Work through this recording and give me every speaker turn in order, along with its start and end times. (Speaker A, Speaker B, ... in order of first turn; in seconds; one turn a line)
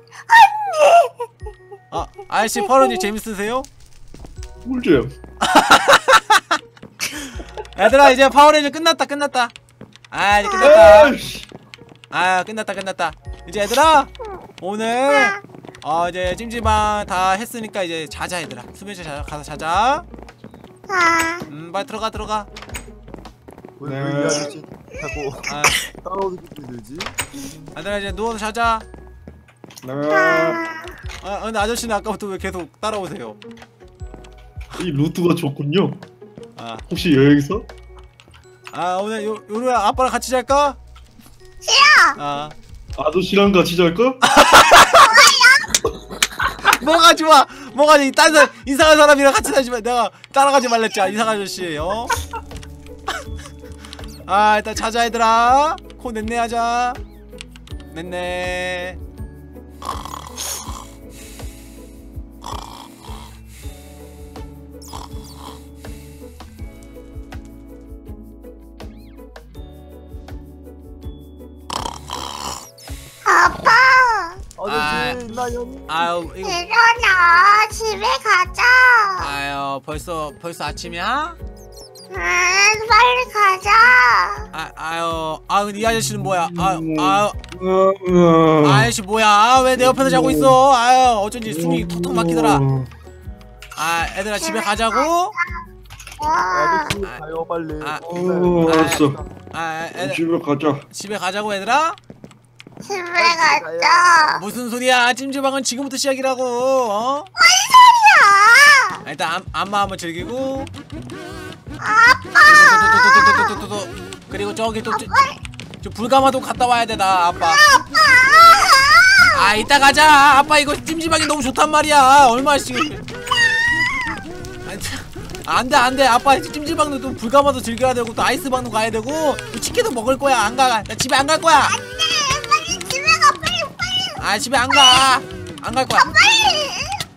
Speaker A: 0.3-1.3
Speaker B: 1.9-3.7
Speaker C: 4.6-5.1
Speaker B: 5.4-6.6
Speaker B: 7.4-9.5
Speaker B: 10.1-11.2
Speaker C: 10.6-11.5
Speaker B: 12.1-20.1
Speaker A: 20.9-21.4
Speaker B: 21.5-22.5
Speaker D: 23.8-27.1
Speaker C: 23.8-24.5
Speaker B: 25.5-25.9
Speaker B: 27.8-28.9
Speaker C: 29.8-30.6
Speaker A: 30.1-31.0
Speaker B: 31.2-33.4
Speaker C: 34.8-36.0
Speaker B: 36.6-36.8
Speaker C: 36.9-37.6
Speaker B: 38.7-40.8
Speaker A: 41.6-42.2
Speaker B: 42.2-42.5
Speaker C: 43.0-44.2
Speaker B: 44.2-45.2
Speaker A: 44.8-45.9
Speaker B: 46.5-52.2
Speaker B: 54.3-57.0
Speaker B: 57.9-59.0
Speaker A: 73.2-74.4
Speaker D: 74.6-76.1
Speaker B: 74.6-75.2
Speaker B: 75.9-76.6
Speaker A: 76.4-79.3
Speaker B: 79.2-81.4
Speaker A: 82.1-84.5
Speaker B: 84.5-87.4
Speaker C: 86.0-88.9
Speaker B: 88.6-92.6
Speaker C: 89.8-90.6
Speaker C: 91.5-92.9
Speaker B: 93.8-95.4
Speaker A: 94.4-95.6
Speaker A: 96.2-97.0
Speaker D: 96.5-99.3
Speaker B: 97.8-98.1
Speaker C: 98.0-99.2
Speaker B: 98.6-100.2
Speaker C: 100.0-100.8
Speaker B: 100.9-102.0
Speaker A: 102.8-104.4
Speaker D: 103.1-104.2
Speaker B: 104.4-107.3
Speaker A: 107.4-109.0
Speaker B: 109.0-110.7
Speaker A: 111.8-113.6
Speaker B: 112.5-115.1
Speaker A: 114.9-115.4
Speaker B: 115.8-117.7
Speaker A: 117.4-119.5
Speaker B: 119.3-123.0
Speaker B: 124.6-131.8
Speaker A: 131.6-135.2
Speaker B: 134.2-136.2
Speaker A: 135.9-137.0